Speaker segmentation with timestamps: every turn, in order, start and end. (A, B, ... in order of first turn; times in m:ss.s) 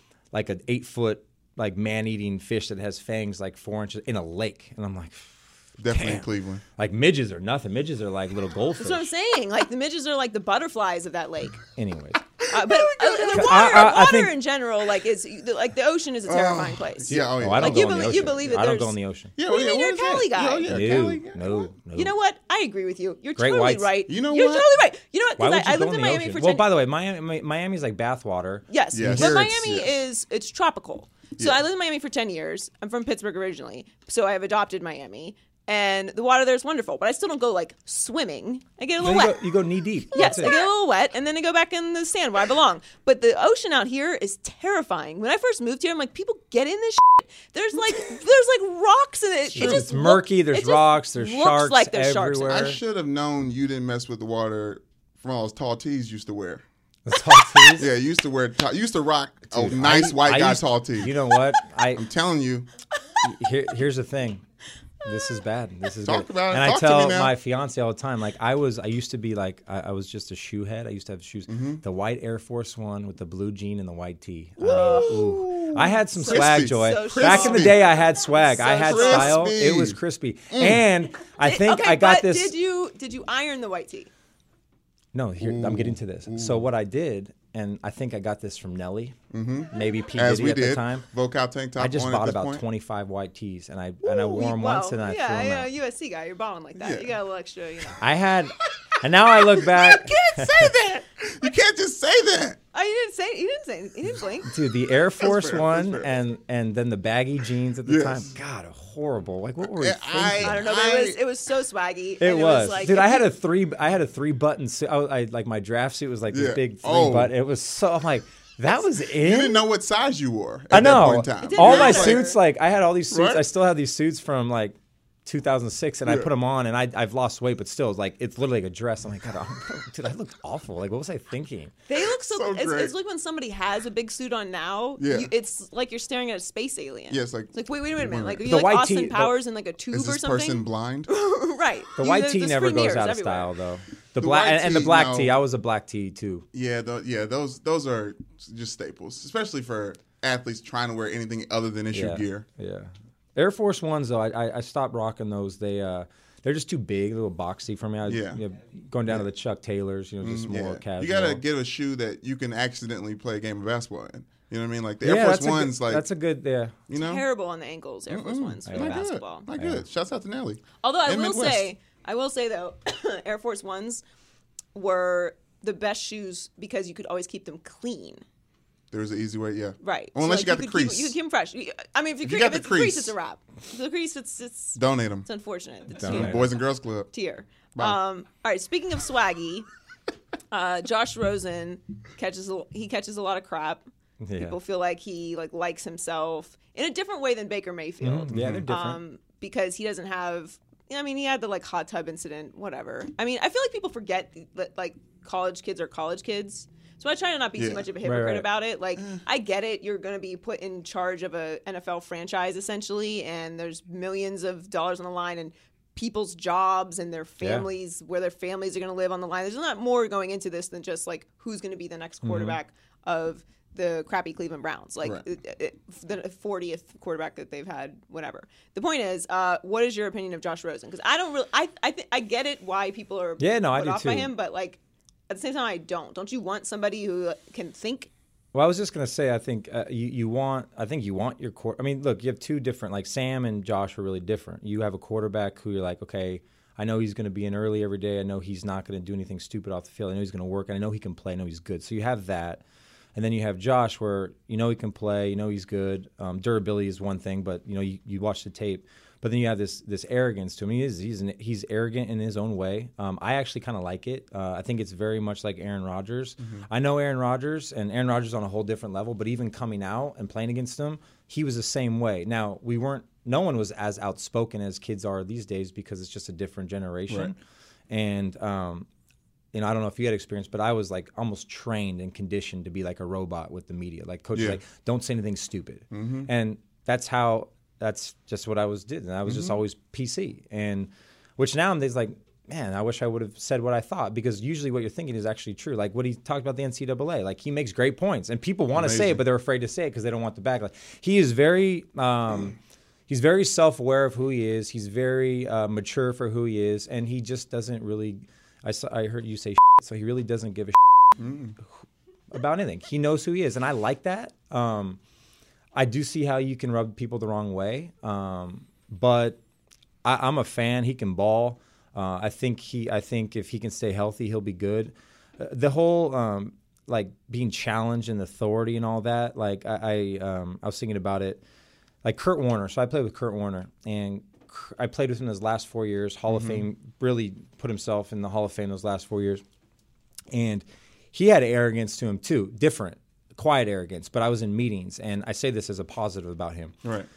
0:00.3-0:09.1 A
0:05.8-0:06.6 B
0:08.8-0:11.6 C
0:11.7-0:12.2 A
0:12.5-0:21.2 C
0:12.7-0:13.7 B
0:13.3-0:14.4 A
0:16.3-0:18.4 B
0:17.1-0:19.3 A
0:19.4-0:21.7 B
0:20.6-0:22.1 A
0:21.9-0:26.7 C
0:23.4-0:23.9 A
0:24.1-0:24.7 B
0:25.4-0:29.6 A
0:28.7-0:39.5 C
0:28.9-0:30.0 B
0:31.4-0:31.6 B
0:39.0-0:40.6 A
0:40.1-0:52.6 C
0:49.5-0:52.8 A
0:52.5-0:56.6 B
0:57.1-0:57.9 A
0:57.8-1:01.2 B
0:59.5-1:02.0 A
1:01.9-1:02.7 B
1:03.2-1:04.4 A
1:05.0-1:22.6 A
1:06.0-1:07.3 B
1:11.5-1:11.8 B
1:14.6-1:15.2 C
1:14.6-1:17.8 B
1:16.2-1:19.4 C
1:18.8-1:20.0 B
1:20.5-1:20.8 B
1:21.4-1:24.1 C
1:25.1-1:29.2 A
1:25.4-1:26.7 B
1:29.3-1:32.6 B
1:29.7-1:31.1 A
1:31.8-1:35.7 A
1:34.0-1:38.0 C
1:36.8-1:37.1 B
1:38.0-1:40.8 A
1:39.6-1:42.6 B
1:42.7-1:44.5 C
1:44.4-1:50.6 A
1:45.2-1:46.2 B
1:47.8-1:48.3 B
1:49.6-1:51.2 B
1:50.4-1:53.3 C
1:52.2-1:59.6 A
1:56.3-1:57.3 B
1:59.2-2:02.3 B
2:00.7-2:11.7 A
2:01.4-2:02.4 C
2:03.1-2:03.4 B
2:11.9-2:23.5 C
2:12.2-2:12.9 B
2:15.0-2:15.3 B
2:17.1-2:18.4 B
2:18.4-2:19.3 A
2:19.9-2:21.1 B
2:22.0-2:26.5 A
2:24.2-2:25.3 B
2:26.5-2:32.4 B
2:31.9-2:41.4 A
2:38.1-2:38.4 B
2:40.2-2:46.0 B
2:45.0-2:46.8 A
2:46.9-2:47.2 B
2:46.9-2:49.5 C
2:48.1-2:51.7 B
2:48.7-2:49.8 A
2:50.8-2:54.0 C
2:54.8-2:58.2 C
2:58.9-3:01.2 B
2:59.8-3:06.6 C
3:02.2-3:03.1 B
3:04.8-3:05.3 B
3:06.0-3:06.5 A
3:06.0-3:07.1 B
3:07.1-3:09.7 C
3:10.5-3:13.9 C
3:14.2-3:14.6 A
3:14.4-3:58.1 C
3:18.0-3:19.0 A
3:18.3-3:18.6 B
3:27.6-3:27.8 B
3:28.0-3:28.5 A
3:29.0-3:29.2 B
3:37.4-3:37.7 A
3:42.2-3:42.6 A
3:53.4-3:54.3 A
3:58.5-4:12.6 A
4:13.2-4:37.4 A
4:26.4-4:26.7 B
4:37.9-4:38.9 A
4:39.5-5:02.6 A
4:44.4-4:44.6 B
4:45.9-4:46.3 B
4:49.2-4:49.6 B
4:58.7-4:59.2 B
5:03.1-5:11.0 A
5:11.2-5:11.6 B
5:12.3-5:15.0 A
5:15.7-5:19.4 A
5:20.0-5:31.4 A
5:32.0-5:39.4 A
5:36.3-5:36.6 B
5:40.3-5:46.8 A